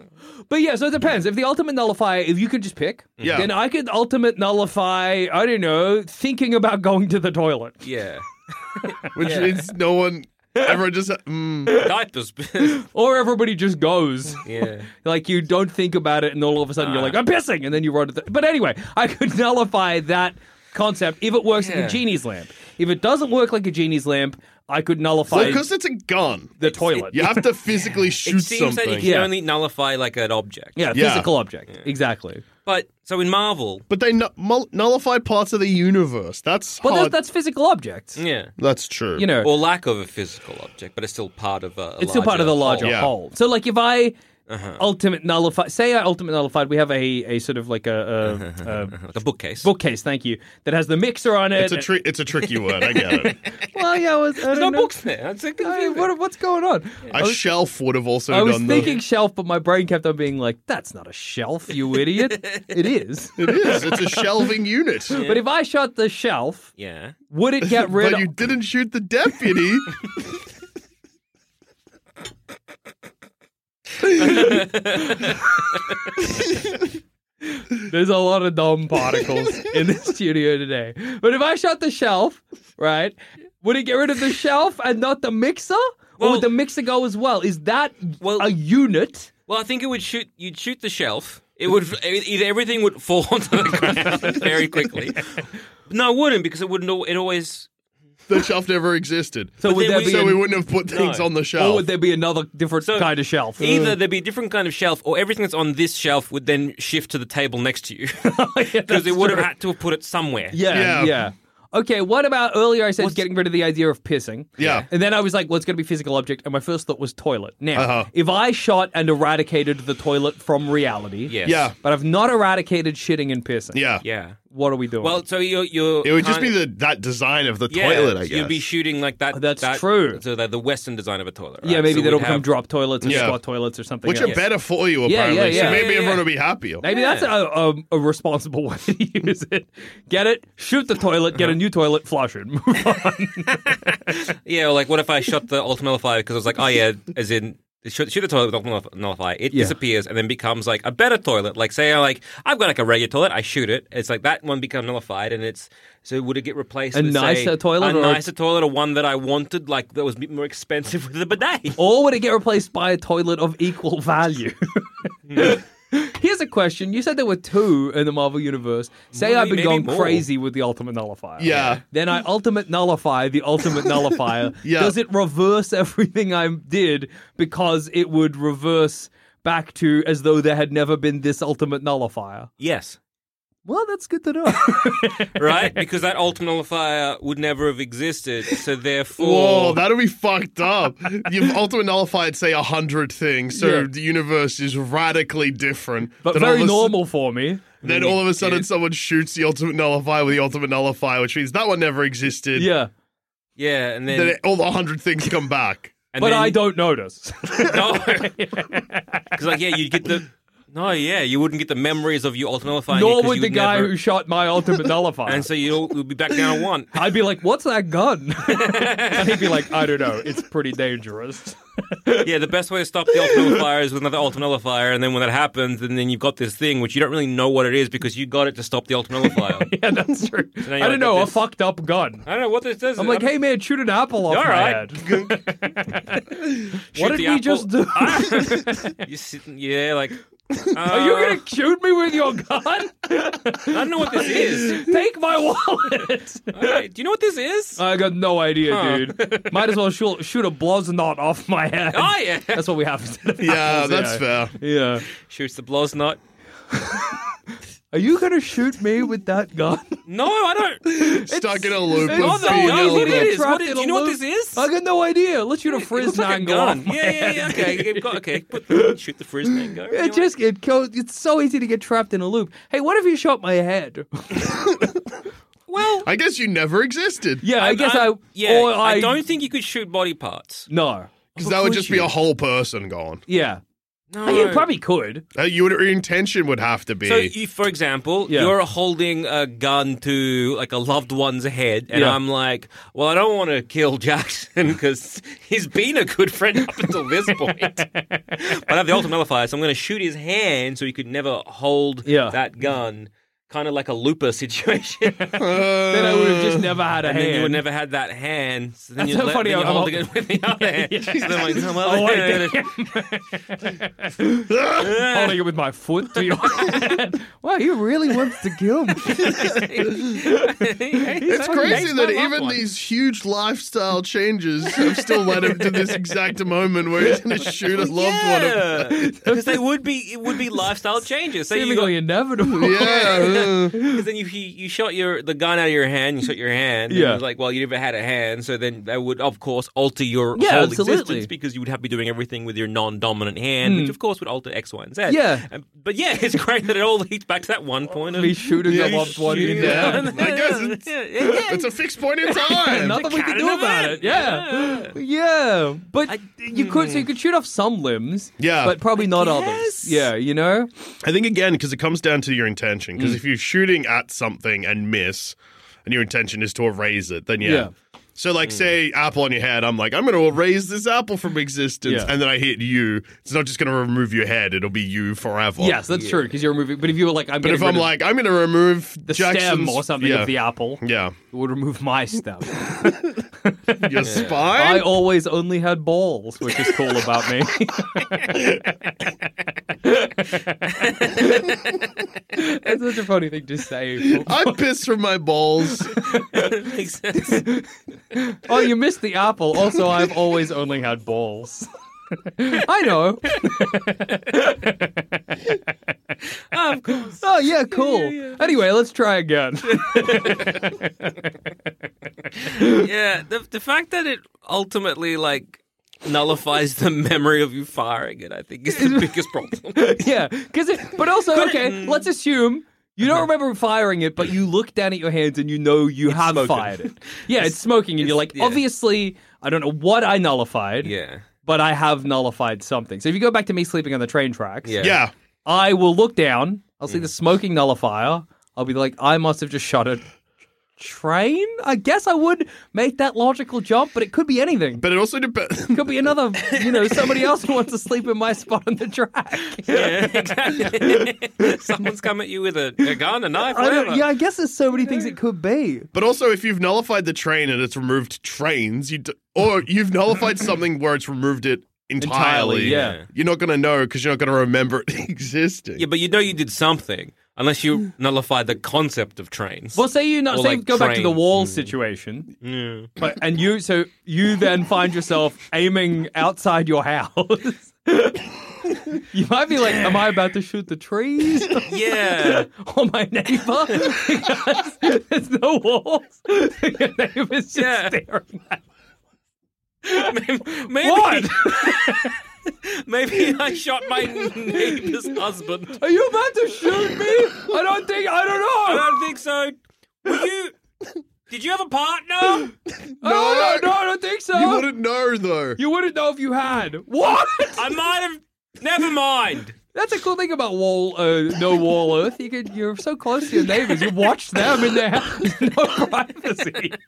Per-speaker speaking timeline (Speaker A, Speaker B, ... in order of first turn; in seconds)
Speaker A: 0.5-7.8, 12.7-25.6, 26.6-27.5, 29.0-29.4, 30.8-32.5, 36.8-38.2, 39.2-39.5, 42.0-44.1, 44.8-49.1, 49.6-51.9, 53.7-54.9, 55.6-57.5, 58.3-64.3, 65.2-66.7, 67.3-68.6, 77.9-89.3, 94.1-94.8, 99.6-100.5, 101.5-103.9, 108.2-109.5, 110.5-123.8, 124.5-125.2, 129.3-130.2, 131.6-134.4, 135.0-136.2, 136.8-143.6, 149.5-149.8, 156.9-158.2, 161.8-182.5, 183.7-185.7, 193.5-193.9, 196.2-197.8, 202.6-202.9, 206.2-209.5, 212.9-215.5, 216.9-222.3, 223.2-223.6, 229.3-232.3, 233.0-239.1, 240.7-246.8, 247.8-255.1, 256.8-257.1, 257.9-260.0, 260.9-269.0, 269.9-274.8, 277.4-279.2, 280.7-282.1, 283.3-283.6, 284.2-285.2, 288.3-288.6, 291.9-292.2, 297.3-298.4, 302.1-302.4, 305.9-307.6, 309.0-319.6, 321.1-322.0, 329.0-329.6, 331.5-334.0, 336.9-337.2, 340.4-341.3, 343.6-343.9, 345.1-345.5, 348.2-350.2, 352.3-360.7, 367.4-367.7, 371.8-372.1, 375.6-377.9, 379.1-382.9, 383.7-384.0, 384.5-388.6, 392.4-394.6, 397.2-401.7, 402.4-404.9, 407.1-410.8, 412.6-412.9, 418.7-434.7, 435.5-440.1, 440.8-444.9, 445.7-451.8, 452.8-455.9, 462.0-463.1, 469.8-472.3, 473.0-478.3, 479.1-488.6, 489.9-492.1, 494.6-495.0, 495.7-499.0, 503.0-504.7, 505.6-507.7, 509.7-516.8
Speaker B: 3.2-3.5, 7.8-9.7, 11.7-12.8, 14.4-14.9, 16.8-17.2, 21.5-22.1, 25.3-25.6, 26.6-27.1, 28.2-31.0, 32.6-33.9, 38.2-38.5, 39.4-43.0, 44.5-44.9, 48.2-49.7, 52.7-56.1, 58.7-59.0, 62.1-62.8, 65.1-65.5, 66.8-67.2, 74.2-75.4, 86.2-86.5, 88.2-88.5, 89.5-95.3, 95.9-97.7, 99.6-101.3, 102.8-110.7, 113.0-113.2, 114.6-114.9, 121.3-121.7, 124.0-124.4, 125.0-126.6, 127.7-132.5, 133.0-133.3, 134.2-134.4, 135.4-136.3, 136.8-137.3, 143.6-161.8, 165.3-165.6, 169.1-170.3, 171.4-171.8, 182.6-183.0, 185.3-189.8, 197.8-198.7, 203.6-204.4, 206.1-206.7, 207.6-208.4, 209.3-213.9, 215.2-217.1, 218.4-219.8, 222.2-229.7, 230.6-231.4, 232.3-233.3, 234.3-236.0, 236.9-240.2, 240.7-241.5, 243.7-244.9, 246.5-247.8, 248.6-249.8, 251.9-252.7, 255.1-256.2, 260.1-260.9, 261.9-264.7, 265.7-270.3, 275.7-276.1, 277.6-280.7, 284.1-284.7, 287.0-297.9, 298.4-305.4, 307.0-312.8, 314.7-315.5, 316.1-316.9, 319.1-322.6, 324.7-326.0, 327.7-332.0, 332.7-351.7, 352.2-355.0, 356.1-357.1, 359.0-360.1, 375.9-376.3, 384.0-384.5, 390.8-391.5, 396.3-397.5, 406.5-408.6, 409.6-410.8, 412.6-420.1, 421.3-422.1, 423.0-423.3, 426.1-428.6, 430.8-431.3, 434.6-435.0, 446.5-447.3, 449.7-454.1, 454.8-455.1, 462.6-463.1, 465.8-471.8, 472.4-472.9, 479.6-480.1, 481.6-482.5, 487.5-488.0, 489.9-495.9, 496.8-497.2, 498.6-500.6, 501.3-502.5, 507.6-509.6
Speaker C: 3.2-3.5, 9.2-11.7, 25.3-26.5, 27.1-29.1, 30.9-31.3, 33.9-37.2, 38.6-39.3, 42.8-43.1, 51.6-53.4, 57.1-58.9, 63.4-65.2, 67.6-70.0, 98.3-101.9, 110.7-111.2, 114.6-114.9, 117.8-118.1, 121.5-121.8, 123.7-124.0, 126.0-128.6, 133.0-133.4, 134.1-136.8, 171.4-171.8, 174.6-174.9, 189.2-197.0, 197.8-202.7, 204.1-205.9, 253.4-254.6, 261.3-263.3, 276.0-277.4, 281.4-283.2, 285.4-287.3, 305.4-306.7, 321.3-328.9, 332.4-333.8, 348.7-350.9, 351.5-353.0, 358.4-358.8, 361.0-375.8, 377.4-381.2, 383.8-384.9, 394.1-395.9, 434.8-435.1, 444.8-446.1, 455.9-465.9, 503.0-503.8, 504.3-505.6